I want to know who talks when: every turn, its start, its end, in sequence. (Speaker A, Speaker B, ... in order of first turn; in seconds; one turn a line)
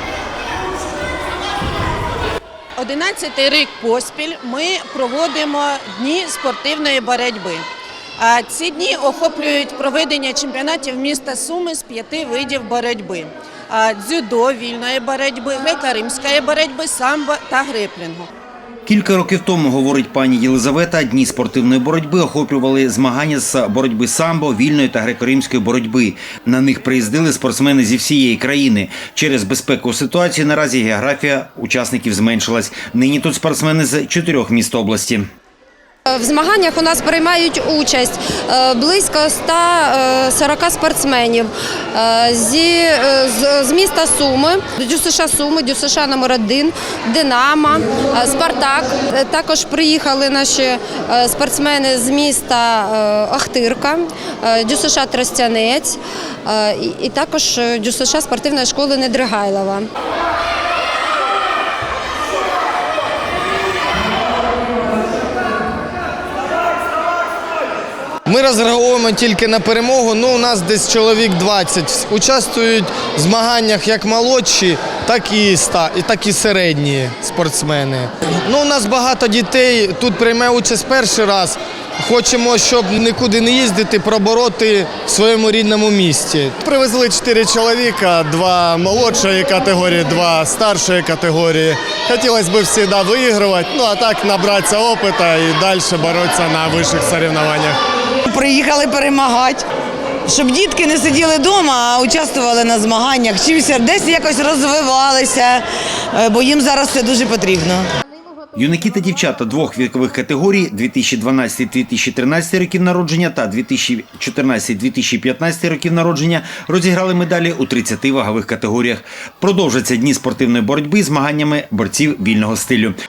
Speaker A: 2.8-7.7
Speaker A: 8.2-18.3
Speaker B: 18.9-35.2
Speaker C: 36.1-59.9
Speaker D: 68.3-86.6
Speaker E: 86.6-97.8
Speaker F: 98.2-99.6
Speaker F: 100.3-107.9
Speaker B: 108.5-123.0